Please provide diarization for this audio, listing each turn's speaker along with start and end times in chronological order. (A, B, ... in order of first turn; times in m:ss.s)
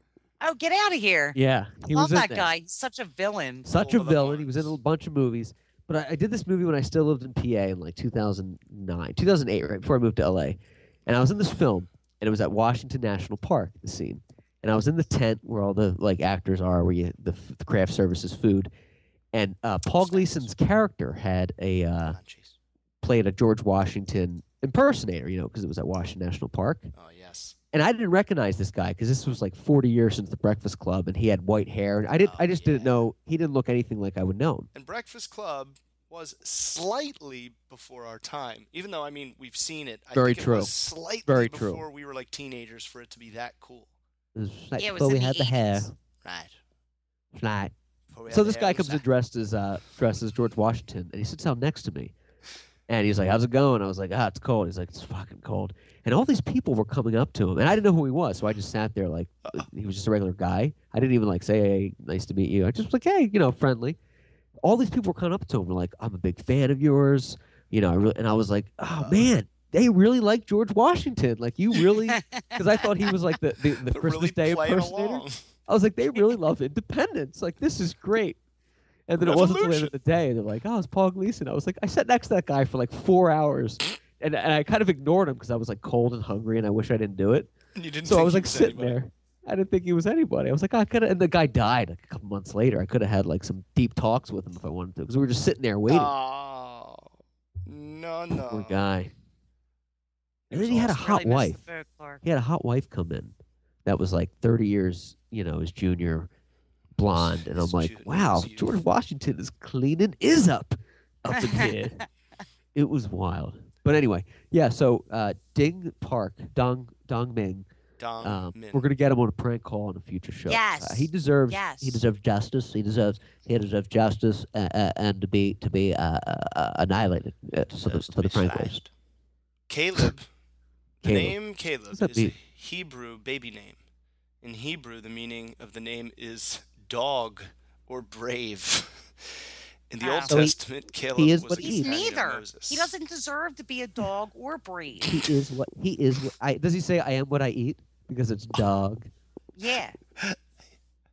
0:00.4-0:01.4 A
0:01.4-0:02.5 B
0:01.9-0:03.7 A
0:03.6-0:18.7 B
0:03.7-0:04.8 C
0:19.3-0:22.2 B
0:19.9-0:20.5 C
0:22.0-0:22.6 C
0:23.0-0:26.9 B
0:26.9-0:27.6 C
0:27.7-0:34.7 B
0:32.2-0:33.1 C
0:34.7-0:43.9 C
0:40.1-0:40.7 B
0:41.2-0:41.8 B
0:44.4-0:45.9 B
0:44.8-0:45.9 A
0:46.2-0:46.6 C
0:47.3-0:47.7 B
0:48.1-0:49.0 C
0:48.3-0:52.1 B
0:52.9-1:04.0 B
1:04.6-1:18.4 B
1:09.0-1:09.3 C
1:12.1-1:12.6 A
1:13.9-1:15.5 C
1:19.1-1:27.5 B
1:19.2-1:19.9 C
1:27.8-1:29.0 C
1:28.0-1:36.1 B
1:35.9-1:37.1 C
1:37.7-1:38.8 C
1:38.5-1:39.1 B
1:40.5-1:41.0 C
1:40.5-1:41.6 B
1:40.9-1:42.2 A
1:42.2-1:46.3 B
1:47.0-1:52.0 B
1:47.0-1:48.8 C
1:51.3-1:51.7 A
1:52.8-1:57.7 B
1:58.0-1:58.9 C
1:58.2-2:08.8 B
2:00.5-2:02.0 A
2:07.8-2:08.9 C
2:09.7-2:10.3 C
2:11.0-2:13.8 C
2:11.0-2:11.4 B
2:11.9-2:12.4 B
2:14.4-2:22.9 C
2:20.0-2:20.4 A
2:20.3-2:20.6 B
2:21.2-2:21.9 B
2:21.6-2:25.2 A
2:25.0-2:29.1 B
2:29.6-2:30.0 A